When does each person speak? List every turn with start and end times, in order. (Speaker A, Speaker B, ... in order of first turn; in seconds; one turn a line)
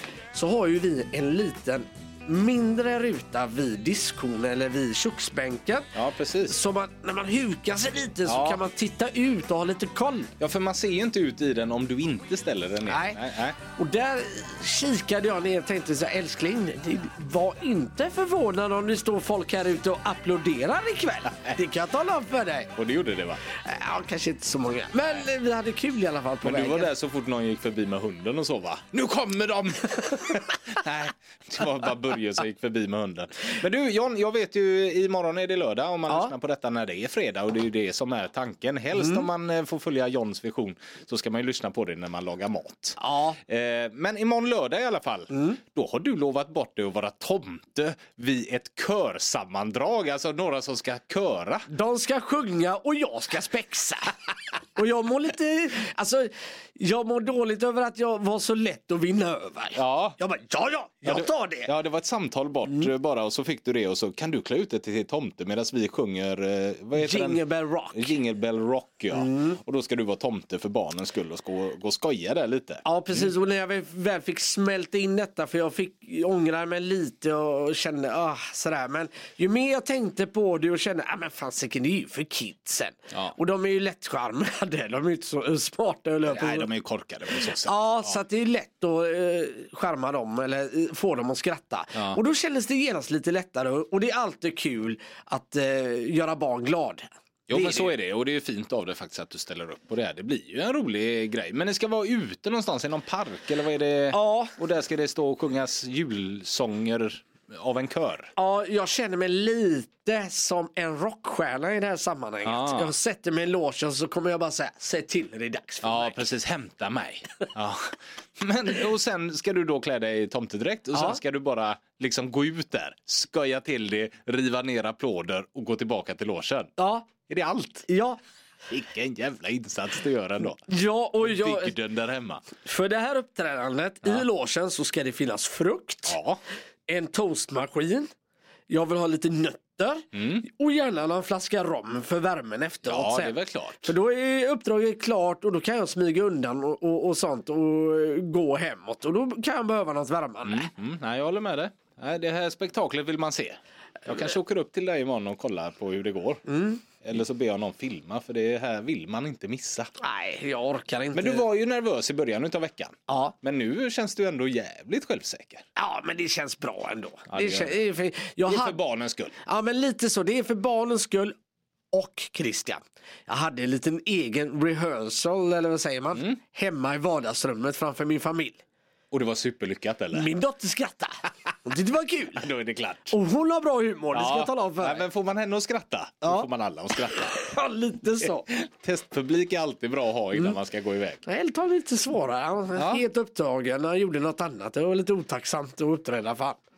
Speaker A: 0.3-5.9
Speaker B: 5.9-6.6
Speaker A: 6.5-10.3
Speaker B: 8.3-8.6
Speaker B: 10.4-13.6
Speaker A: 12.9-22.7
Speaker B: 22.8-23.4
Speaker A: 23.5-26.9
Speaker B: 26.4-51.7
Speaker A: 43.0-43.4
Speaker A: 45.3-45.6
Speaker A: 51.7-54.2
Speaker A: 54.8-61.7
Speaker B: 59.8-60.2
Speaker B: 61.1-73.3
Speaker A: 67.0-68.1
Speaker A: 69.1-69.6
Speaker A: 72.8-86.7
Speaker B: 86.3-88.2
Speaker A: 87.6-97.9
Speaker B: 97.5-108.3
Speaker A: 104.1-104.5
Speaker A: 108.4-116.2
Speaker B: 112.5-112.9
Speaker B: 115.8-126.7
Speaker A: 120.9-121.2
Speaker A: 126.8-127.1
Speaker B: 127.3-127.9
Speaker A: 127.9-128.2
Speaker B: 128.7-130.7
Speaker A: 130.6-131.7
Speaker B: 131.2-132.4
Speaker A: 132.6-136.2
Speaker B: 136.1-136.4
Speaker A: 136.9-138.1
Speaker A: 138.7-150.7
Speaker B: 140.1-140.4
Speaker B: 142.9-143.9
Speaker B: 150.4-159.9
Speaker A: 156.5-156.8
Speaker A: 160.0-161.4
Speaker B: 161.1-165.7
Speaker A: 163.1-163.3
Speaker A: 165.8-168.8
Speaker B: 167.3-167.8
Speaker B: 168.5-169.3
Speaker A: 169.4-171.3
Speaker A: 171.9-178.6
Speaker B: 179.1-180.3
Speaker A: 180.1-182.4
Speaker B: 182.4-183.2
Speaker A: 183.1-185.1
Speaker B: 184.1-187.4
Speaker A: 187.1-188.5
Speaker B: 188.2-191.2
Speaker A: 191.2-196.6
Speaker B: 192.8-193.0